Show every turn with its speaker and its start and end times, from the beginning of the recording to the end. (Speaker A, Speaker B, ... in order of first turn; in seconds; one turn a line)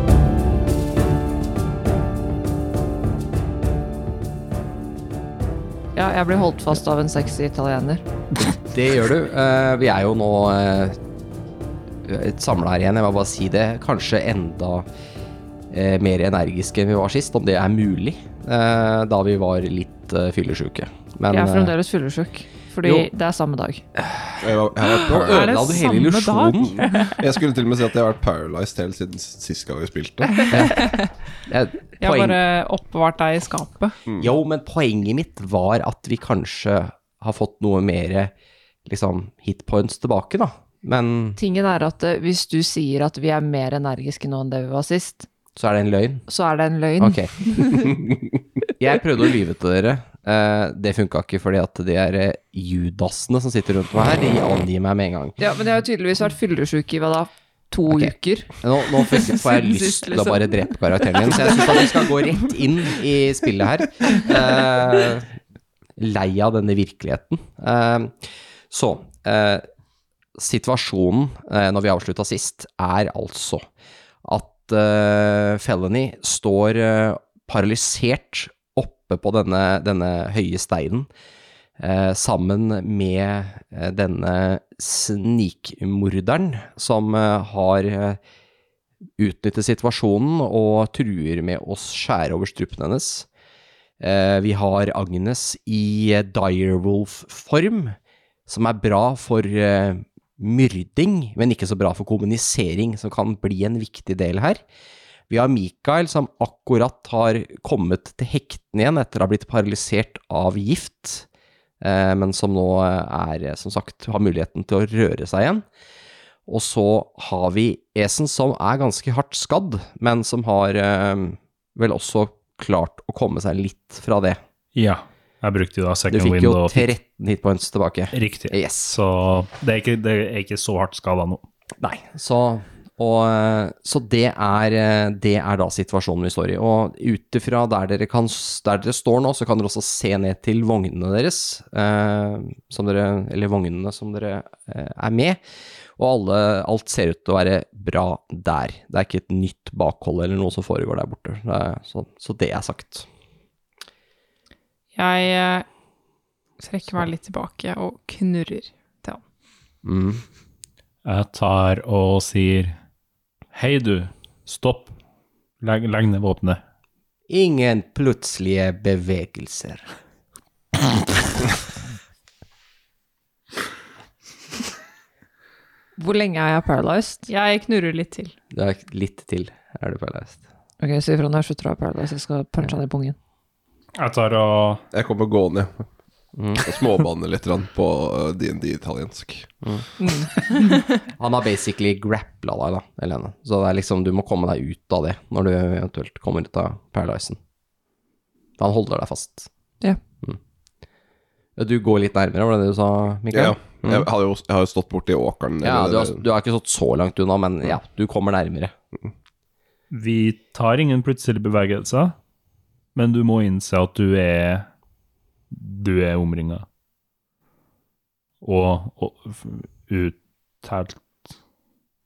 Speaker A: 5.9-8.0
Speaker B: 8.4-11.0
Speaker B: 12.1-14.8
Speaker B: 15.7-21.7
Speaker A: 21.3-23.8
Speaker B: 22.8-23.1
Speaker B: 24.0-26.8
Speaker C: 24.4-25.5
Speaker D: 25.1-27.2
Speaker C: 26.7-30.5
Speaker B: 30.5-30.9
Speaker D: 30.5-31.0
Speaker B: 31.5-32.4
Speaker D: 32.0-34.0
Speaker B: 34.2-38.3
Speaker B: 38.9-41.4
Speaker A: 41.4-45.3
Speaker B: 45.5-46.2
Speaker A: 46.3-48.0
Speaker B: 47.0-48.1
Speaker B: 48.8-55.4
Speaker A: 55.4-61.9
Speaker B: 57.9-65.3
Speaker B: 66.0-69.7
Speaker B: 70.4-73.6
Speaker B: 74.2-81.1
Speaker B: 81.8-88.2
Speaker B: 89.2-93.3
Speaker B: 94.0-98.0
Speaker B: 98.5-104.6
Speaker B: 105.3-111.2
Speaker B: 111.8-115.6
Speaker B: 116.5-124.4
Speaker E: 124.7-126.9
Speaker B: 126.1-129.0
Speaker E: 128.1-131.4
Speaker B: 131.8-145.4
Speaker B: 146.0-153.1
Speaker D: 154.9-155.7
Speaker D: 156.6-159.2
Speaker B: 159.8-160.2
Speaker E: 161.0-162.8
Speaker E: 163.5-164.9
Speaker E: 165.6-166.6
Speaker B: 167.3-169.9
Speaker A: 176.0-177.2
Speaker D: 177.3-178.3
Speaker B: 178.5-180.4
Speaker A: 180.8-183.2
Speaker E: 183.9-184.8
Speaker C: 184.9-185.9
Speaker B: 186.3-186.7
Speaker C: 186.6-189.5
Speaker A: 190.0-190.9
Speaker B: 191.2-197.4
Speaker B: 198.6-199.5
Speaker B: 201.6-204.1
Speaker C: 203.3-206.2
Speaker B: 205.6-208.7
Speaker E: 209.9-212.1
Speaker E: 212.9-214.7
Speaker E: 215.5-216.6
Speaker E: 218.4-221.0